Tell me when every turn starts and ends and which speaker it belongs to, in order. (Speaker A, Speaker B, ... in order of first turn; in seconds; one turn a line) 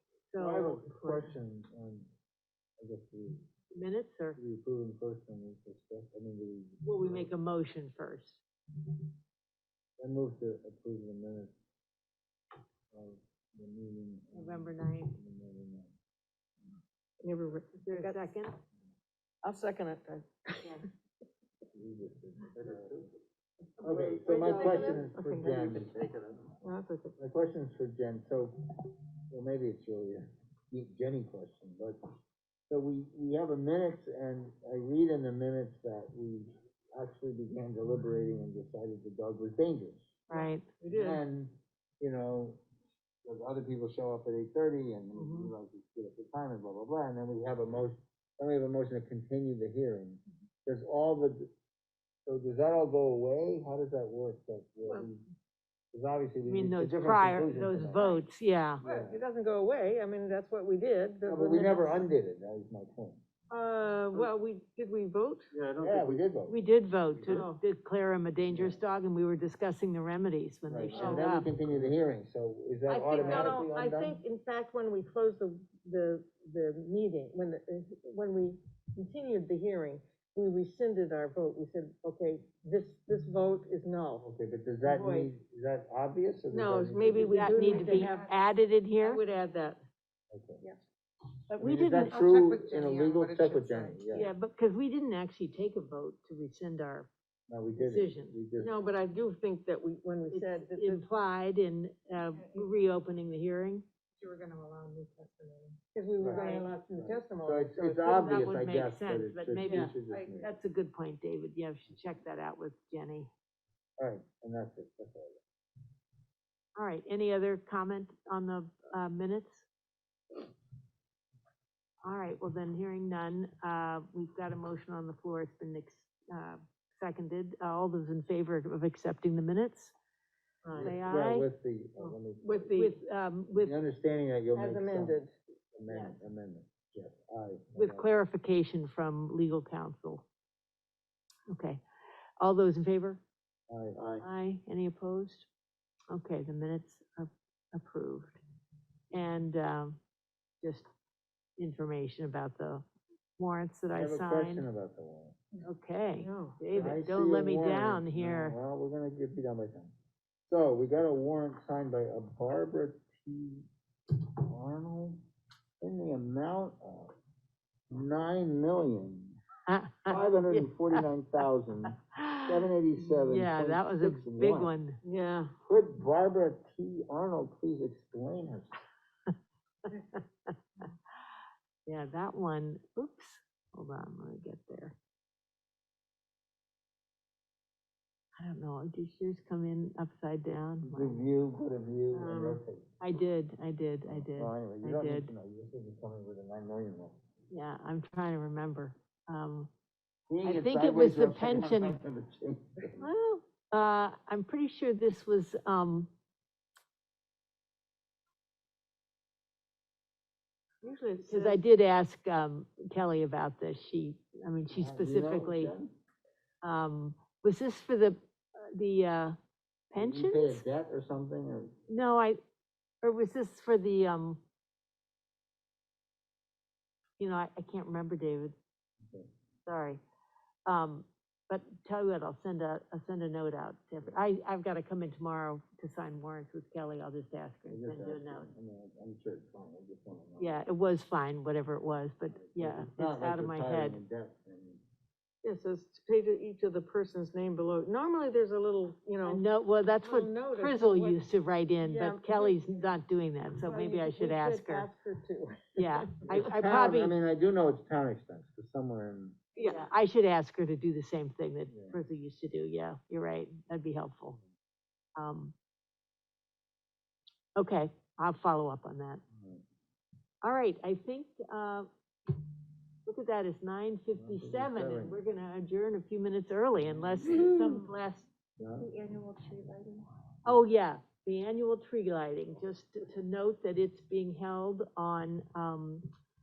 Speaker A: 0.3-1.1
Speaker B: 0.4-2.1
Speaker B: 2.8-3.5
Speaker A: 3.7-4.4
Speaker B: 4.4-7.3
Speaker A: 6.8-8.4
Speaker B: 10.0-11.5
Speaker B: 12.9-15.9
Speaker A: 14.3-15.2
Speaker C: 17.2-18.3
Speaker A: 17.9-18.6
Speaker C: 19.4-20.8
Speaker B: 21.7-23.1
Speaker B: 23.8-26.1
Speaker C: 23.8-25.9
Speaker D: 24.3-25.0
Speaker C: 26.6-27.1
Speaker B: 27.2-28.6
Speaker B: 29.3-32.0
Speaker B: 32.7-40.1
Speaker A: 40.3-40.6
Speaker C: 40.3-41.2
Speaker B: 40.9-42.6
Speaker B: 43.2-51.5
Speaker C: 45.2-45.5
Speaker B: 52.3-55.2
Speaker B: 55.9-58.2
Speaker A: 56.5-58.8
Speaker B: 58.8-59.2
Speaker C: 58.8-62.0
Speaker B: 61.3-63.2
Speaker C: 63.5-65.5
Speaker D: 65.5-66.2
Speaker B: 65.8-66.6
Speaker A: 66.5-71.5
Speaker C: 67.3-67.6
Speaker B: 68.5-68.8
Speaker B: 70.7-74.2
Speaker C: 70.9-71.3
Speaker C: 72.9-84.3
Speaker A: 73.2-73.5
Speaker B: 84.2-87.5
Speaker C: 84.8-85.3
Speaker C: 86.5-88.3
Speaker A: 87.3-89.2
Speaker D: 87.6-88.2
Speaker C: 89.0-89.8
Speaker B: 90.3-90.6
Speaker A: 91.5-92.2
Speaker B: 91.6-94.3
Speaker D: 92.1-94.0
Speaker A: 94.1-97.1
Speaker B: 97.5-98.7
Speaker A: 97.8-98.4
Speaker C: 98.6-101.0
Speaker A: 100.3-103.8
Speaker D: 102.3-102.7
Speaker D: 104.2-105.8
Speaker C: 105.9-108.3
Speaker B: 106.2-106.5
Speaker A: 106.3-106.7
Speaker B: 107.0-110.5
Speaker A: 108.1-113.3
Speaker D: 110.0-110.4
Speaker B: 114.0-115.4
Speaker A: 116.8-119.7
Speaker A: 122.0-129.9
Speaker C: 130.7-130.9
Speaker B: 130.8-132.8
Speaker A: 130.8-131.5
Speaker C: 132.0-133.0
Speaker A: 132.8-133.8
Speaker B: 133.5-135.2
Speaker C: 134.6-135.3
Speaker B: 135.8-138.1
Speaker A: 135.9-136.2
Speaker A: 137.8-140.3
Speaker A: 141.5-141.8
Speaker A: 142.4-143.2
Speaker B: 143.7-144.2
Speaker A: 144.2-145.5
Speaker A: 146.1-148.4
Speaker A: 149.1-150.0
Speaker A: 150.6-150.9
Speaker A: 151.6-152.9
Speaker A: 153.4-154.7
Speaker B: 153.9-155.4
Speaker A: 155.6-158.6
Speaker C: 156.2-156.6
Speaker B: 156.7-159.9
Speaker B: 160.5-165.2
Speaker B: 165.8-167.1
Speaker B: 167.9-169.4
Speaker A: 169.7-171.0
Speaker B: 170.1-174.7
Speaker A: 172.2-175.0
Speaker C: 175.0-175.5
Speaker B: 175.6-178.8
Speaker A: 179.9-180.2
Speaker A: 181.9-185.0
Speaker A: 188.4-191.2
Speaker B: 190.8-192.9
Speaker C: 192.1-192.5
Speaker A: 193.0-195.3
Speaker B: 194.1-197.2
Speaker A: 197.5-199.7
Speaker B: 200.3-203.1
Speaker A: 200.4-202.0
Speaker A: 203.0-206.1
Speaker C: 210.8-211.6
Speaker A: 211.2-215.7
Speaker B: 214.7-215.9
Speaker A: 216.6-219.4
Speaker A: 219.9-220.6
Speaker B: 219.9-221.7
Speaker A: 221.9-222.4
Speaker A: 223.0-224.4
Speaker A: 227.2-228.6
Speaker B: 229.0-229.3
Speaker A: 229.7-230.0
Speaker A: 230.7-238.5
Speaker B: 237.7-240.6
Speaker A: 240.4-244.0
Speaker B: 242.3-244.8
Speaker C: 245.4-249.4
Speaker A: 249.3-254.9
Speaker C: 250.0-251.2
Speaker C: 251.8-252.8
Speaker C: 253.5-256.1
Speaker A: 255.8-257.1
Speaker B: 256.2-259.4
Speaker C: 259.6-259.8
Speaker A: 259.6-264.4
Speaker B: 261.7-262.0
Speaker A: 265.2-265.6
Speaker A: 267.6-269.2
Speaker B: 269.3-269.6
Speaker A: 270.4-271.9
Speaker A: 273.1-278.3
Speaker B: 274.2-275.2
Speaker B: 276.8-277.8
Speaker B: 278.6-278.9
Speaker D: 279.0-280.1
Speaker A: 280.4-286.1